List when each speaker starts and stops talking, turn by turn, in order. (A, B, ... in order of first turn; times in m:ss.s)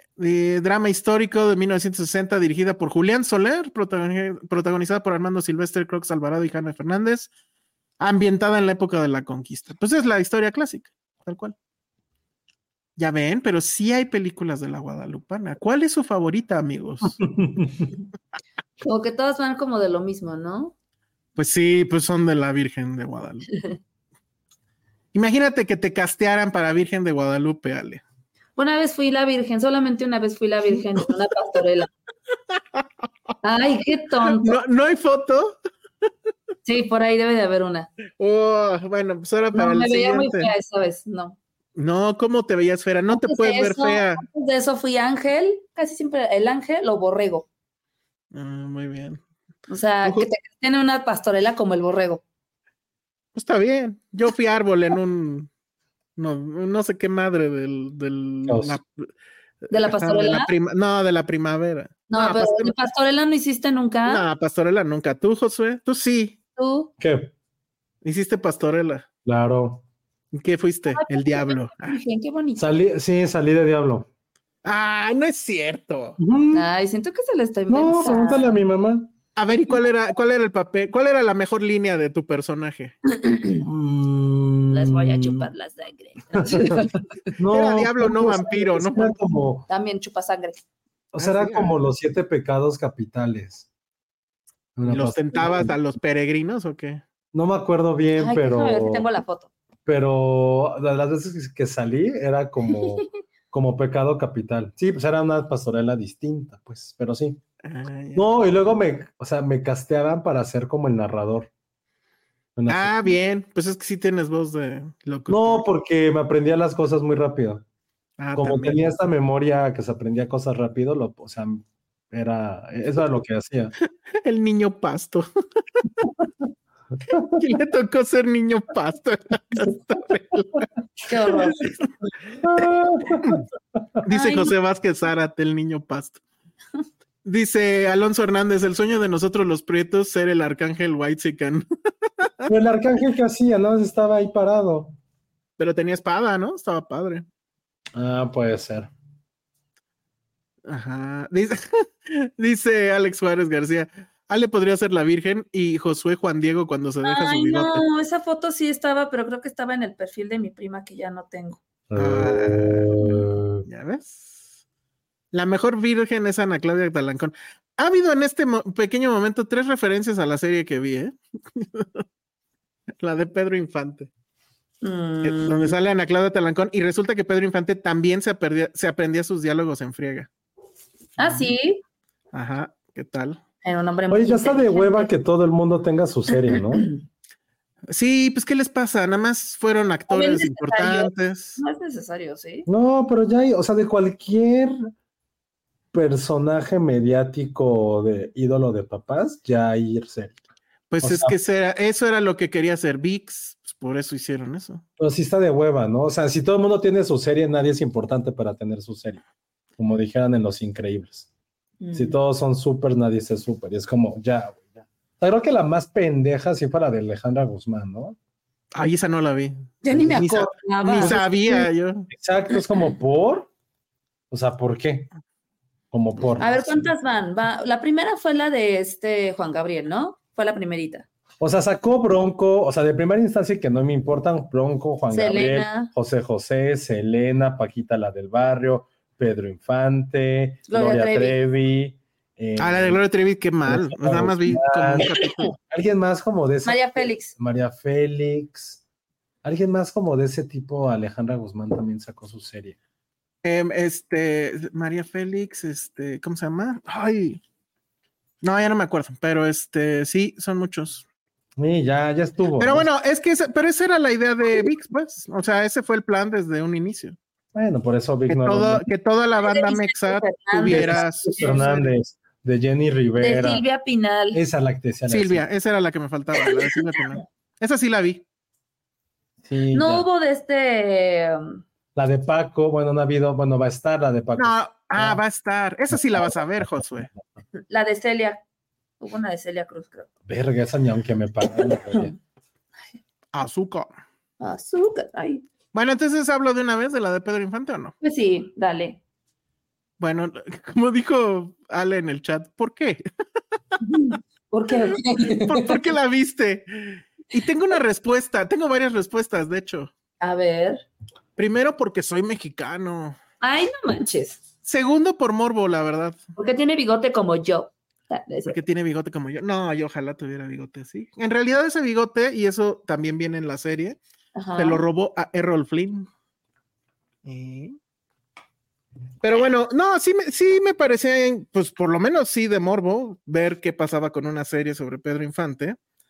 0:00.2-0:07.3 A
0:08.0-0:11.6 A
0:13.0-0:17.2 A
0:17.2-0:17.9 B
0:18.8-0:20.7 C
0:21.4-0:23.5 A
0:25.1-0:28.0 A
0:28.6-0:31.9 C
0:33.4-0:34.6 C
0:34.3-0:35.6 A
0:36.6-0:37.9 C
0:38.2-0:40.5 A
0:39.5-0:41.4 C
0:41.8-0:44.3 A
0:43.1-0:47.5 C
0:48.3-0:49.2 A
0:49.7-0:52.2 C
0:50.0-0:50.3 A
0:53.4-0:55.5 A
0:56.2-0:59.1 A
0:58.5-0:58.8 B
0:59.7-1:02.8 A
0:59.7-1:00.5 C
1:02.1-1:04.2 C
1:04.1-1:06.4 A
1:06.6-1:06.9 C
1:07.0-1:07.3 B
1:08.0-1:09.1 A
1:09.2-1:09.8 B
1:10.3-1:12.0 A
1:10.9-1:12.6 C
1:12.6-1:14.1 B
1:14.6-1:16.2 A
1:16.2-1:16.7 B
1:16.5-1:18.6 C
1:17.7-1:19.1 B
1:19.4-1:23.0 A
1:23.2-1:23.6 C
1:23.6-1:25.5 B
1:24.7-1:27.1 C
1:27.4-1:29.7 B
1:27.5-1:29.2 A
1:29.7-1:30.6 C
1:31.1-1:33.7 B
1:31.2-1:31.8 A
1:34.8-1:35.7 B
1:34.9-1:37.0 A
1:37.3-1:39.1 B
1:38.2-1:39.5 C
1:39.9-1:47.4 B
1:47.6-1:48.3 A
1:48.2-1:51.5 B
1:52.6-1:53.0 B
1:52.7-1:55.6 A
1:55.3-1:57.6 B
1:58.2-1:58.9 A
1:58.4-2:03.7 B
2:04.2-2:05.3 A
2:07.4-2:10.7 A
2:11.1-2:11.6 C
2:11.5-2:11.8 A
2:12.4-2:13.4 B
2:14.0-2:16.2 A
2:14.1-2:14.5 C
2:17.2-2:21.6 A
2:22.2-2:22.5 A
2:22.5-2:25.0 B
2:25.6-2:27.2 A
2:27.9-2:28.9 B
2:30.7-2:37.9 A
2:37.0-2:41.6 C
2:41.9-2:43.6 B
2:42.0-2:44.4 A
2:45.3-2:52.0 A
2:53.0-2:54.1 A
2:54.8-2:55.8 C
2:55.2-3:00.3 A
3:01.2-3:01.8 C
3:02.3-3:03.4 A
3:03.6-3:05.1 C
3:04.1-3:06.9 B
3:07.9-3:11.6 A
3:10.1-3:12.7 C
3:12.7-3:14.8 B
3:15.9-3:20.4 B
3:20.9-3:24.8 A
3:21.0-3:21.3 B
3:25.0-3:29.2 B
3:29.8-3:31.3 B
3:31.8-3:32.2 C
3:31.9-3:34.7 B
3:35.2-3:38.2 B
3:38.8-3:42.1 A
3:39.8-3:41.6 C
3:39.9-3:40.4 B
3:40.9-3:41.3 B
3:42.1-3:43.5 B
3:44.3-3:45.1 B
3:45.9-3:46.9 B
3:46.4-3:51.1 C
3:51.4-4:03.0 B
3:55.1-3:55.9 C
4:00.7-4:01.4 C
4:02.6-4:05.5 A
4:03.7-4:08.8 B
4:06.6-4:07.3 C
4:09.4-4:12.8 B
4:13.4-4:17.4 A
4:18.4-4:21.0 A
4:21.6-4:22.9 B
4:22.6-4:27.2 A
4:27.5-4:28.8 B
4:28.3-4:31.8 A
4:29.4-4:31.9 C
4:30.7-4:33.6 B
4:33.2-4:34.4 C
4:34.3-4:35.4 B
4:35.1-4:38.2 A
4:39.4-4:40.1 B
4:39.7-4:41.6 C
4:42.0-4:45.2 B
4:44.4-4:47.1 A
4:45.9-4:47.2 B
4:47.7-4:48.4 C
4:49.0-4:50.1 C
4:50.3-4:52.1 B
4:53.3-4:53.9 A
4:54.4-4:55.4 C
4:55.7-4:58.0 A
4:58.0-4:59.0 C
5:00.0-5:03.0 A
5:03.8-5:05.8 C
5:05.4-5:09.9 A
5:10.2-5:10.9 C
5:11.4-5:13.2 A
5:13.4-5:14.4 C
5:14.6-5:16.2 A
5:16.4-5:18.6 C
5:18.5-5:24.0 A
5:24.4-5:24.8 C
5:24.6-5:26.1 A
5:27.2-5:27.8 A
5:29.2-5:35.8 A